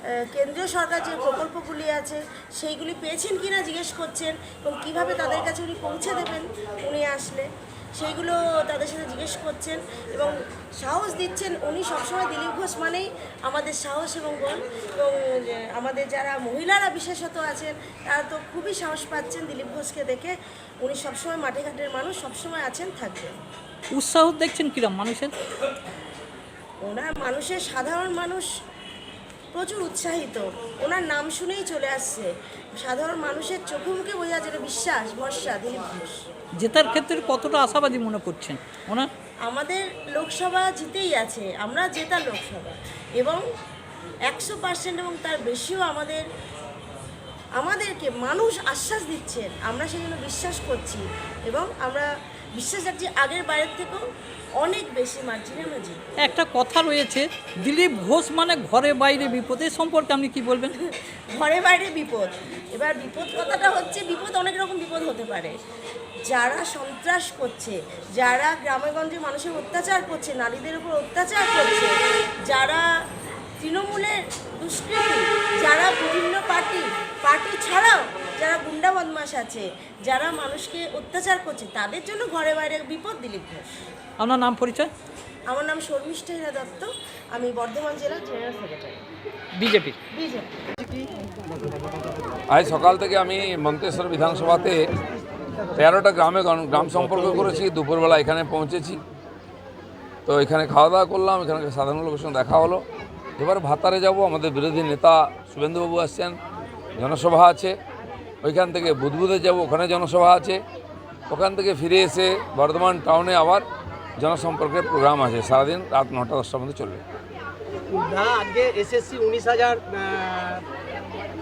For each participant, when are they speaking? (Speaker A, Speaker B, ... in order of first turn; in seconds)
Speaker A: 0.3-23.4, 26.8-28.5, 29.5-32.3, 32.8-36.2, 39.5-43.4, 44.3-46.2, 47.6-54.0, 54.6-56.1, 60.9-65.5, 66.3-71.9, 72.5-72.8, 73.6-83.8, 85.5-89.0, 90.2-90.5
Speaker B: 23.9-25.3, 36.6-39.1, 56.2-60.7, 84.2-84.9, 89.6-90.0
Speaker C: 92.5-94.8, 95.8-99.0, 100.3-102.8, 103.4-106.4, 107.0-107.8, 108.4-110.6, 111.3-113.7, 114.2-117.0
Speaker D: 97.1-97.4, 117.9-120.6